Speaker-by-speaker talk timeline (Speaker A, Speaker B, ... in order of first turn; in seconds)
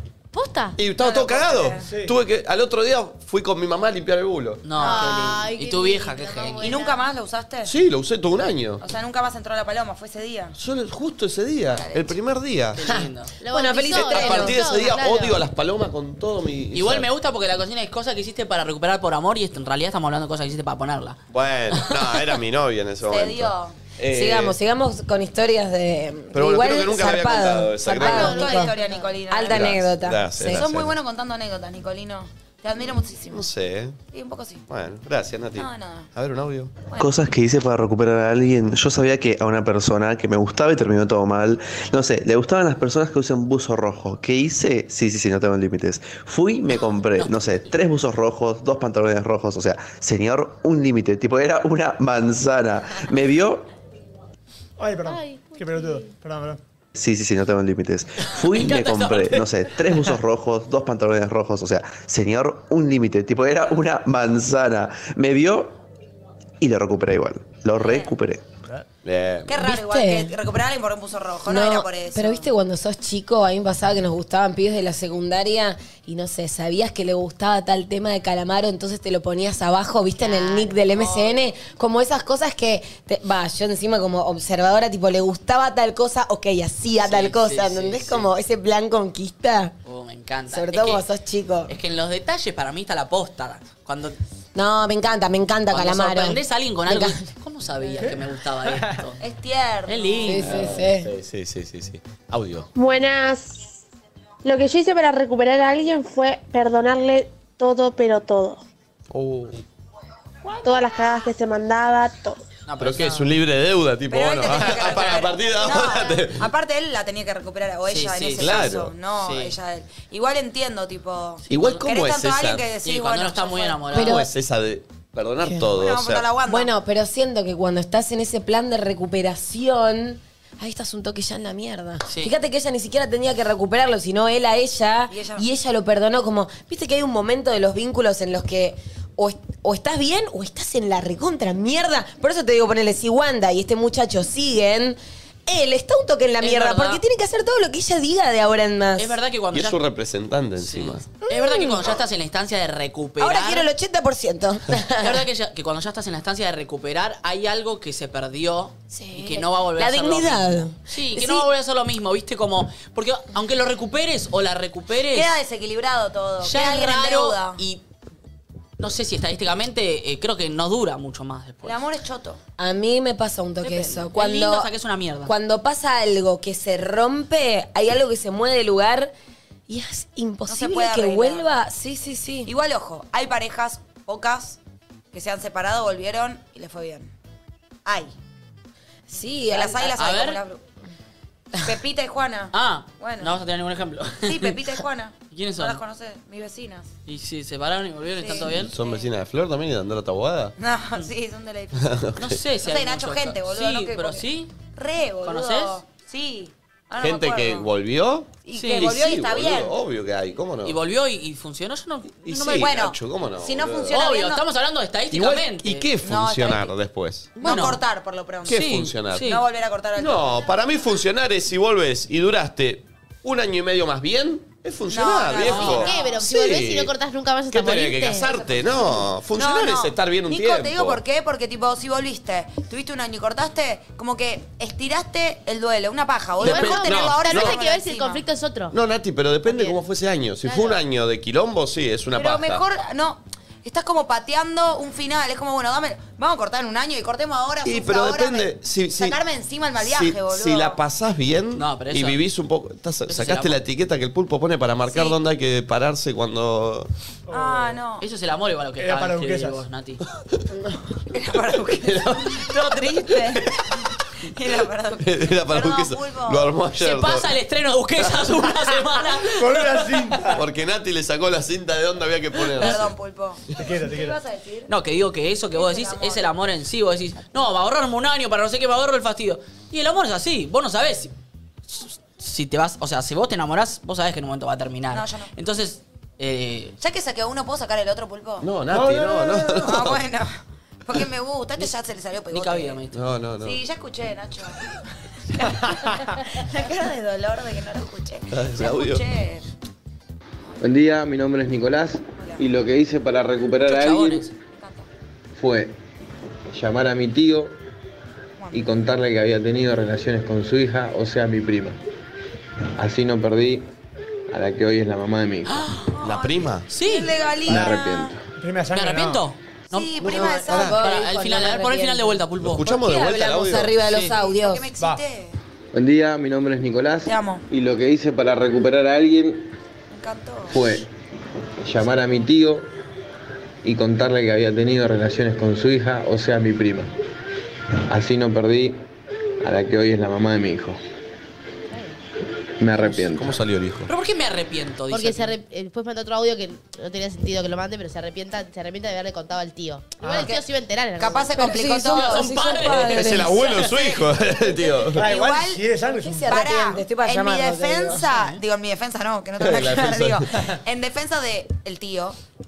Speaker A: 0.3-0.8, 4.8-7.0, 13.4-15.4, 27.9-29.1, 55.0-56.1, 225.4-228.3, 236.4-238.8, 239.4-239.8, 344.9-351.4
Speaker B: 0.8-4.7, 7.6-8.8, 10.6-12.8, 13.9-17.1, 21.3-24.6, 26.3-28.4, 29.5-30.9, 33.3-34.0, 34.7-36.7, 69.0-69.6, 100.4-102.7, 109.1-109.6, 112.8-116.5, 118.4-118.9, 121.5-122.7, 124.0-126.3, 149.5-151.1, 198.5-200.5, 201.8-202.3, 207.0-210.8, 212.2-214.0, 215.1-217.6, 218.4-219.3, 220.0-226.9, 227.5-231.0, 236.4-237.6, 238.7-242.6, 247.6-249.2, 249.8-256.9, 261.8-262.3, 265.0-267.3, 270.3-272.9, 288.4-290.0, 292.9-293.6, 298.3-299.0, 316.0-316.7, 322.4-323.8, 342.8-343.9, 352.8-355.1, 359.4-360.2
Speaker C: 1.0-1.9, 4.8-5.2, 6.6-7.7, 8.8-10.6, 11.7-12.2, 23.0-23.8, 28.0-29.9, 30.5-33.5, 34.1-34.6, 35.5-36.1, 36.9-37.2, 67.8-68.1, 69.5-72.5, 80.4-81.4, 99.2-100.6, 114.1-124.0, 125.7-126.7, 135.1-135.4, 165.1-167.6, 171.6-172.4, 180.5-181.4, 182.4-184.6, 185.1-187.1, 187.8-188.1, 189.5-190.6, 191.6-193.3, 194.2-196.9, 198.2-199.1, 200.6-201.9, 202.6-207.7, 208.4-209.7, 212.5-214.4, 216.0-216.7, 217.4-218.6, 219.2-220.5, 224.9-226.0, 228.3-238.2, 242.1-250.8, 254.9-255.2, 257.3-258.0, 261.1-263.4, 264.2-266.5, 272.5-274.7, 275.5-276.3, 284.9-285.3, 286.8-288.5, 289.6-292.8, 293.4-294.8, 295.3-299.4, 304.5-304.9, 308.4-308.7, 316.0-318.1, 319.7-320.8, 324.0-325.4, 327.1-327.4, 329.9-330.6, 351.0-352.3, 355.0-355.7, 356.3-362.2
Speaker D: 1.8-2.1, 54.8-56.6, 98.0-98.9, 257.3-257.8, 258.8-259.6, 269.2-270.4, 273.6-274.2, 288.7-289.6, 318.4-319.2, 350.0-350.3, 355.0-356.4
Speaker E: 4.6-6.7, 12.8-13.3, 16.7-21.2, 21.7-22.2, 58.3-59.6, 87.0-88.3, 89.8-91.0, 91.7-94.2, 95.7-99.2, 99.8-100.8, 112.7-113.3, 117.9-118.6, 119.2-119.5, 121.5-121.8, 122.8-124.2, 132.1-132.3, 146.4-147.0, 149.0-149.8, 150.6-153.7, 155.0-165.3, 166.4-167.8, 168.8-171.8, 173.6-175.3, 189.9-190.4, 192.5-194.5, 195.3-195.8, 197.1-198.7, 202.2-204.5, 205.2-205.8, 208.5-208.9, 210.6-212.7, 213.9-215.9, 217.4-217.8, 218.5-219.4, 225.4-225.8, 251.5-252.2, 253.1-253.6, 258.0-260.0, 266.8-270.0, 274.7-281.1, 281.7-286.7, 292.3-293.0, 303.6-304.3, 315.4-315.9, 316.7-317.1, 318.7-322.7, 323.8-324.1, 343.9-345.3, 351.8-354.0, 358.0-358.4
Speaker F: 13.5-14.6, 24.1-28.7, 29.3-30.6, 69.5-70.3, 71.4-89.7, 90.5-91.7, 94.5-97.2, 100.2-101.1, 123.9-124.3, 126.5-149.1, 151.2-151.9, 153.2-155.2, 158.9-161.4, 172.6-174.7, 175.2-179.1, 179.7-182.5, 189.1-189.9, 320.0-324.7, 351.3-353.4, 356.0-358.1
Speaker G: 37.0-53.7, 56.9-65.7, 66.6-68.4
Speaker H: 102.8-103.5, 104.5-108.6, 110.6-112.4
Speaker I: 300.6-304.3, 305.3-305.7, 306.5-307.5, 308.5-311.8, 312.8-313.6, 314.3-315.7, 317.5-318.2, 325.7-329.5, 330.5-330.9, 331.6-332.7, 333.6-336.9, 337.9-338.8, 339.4-340.8, 342.6-343.4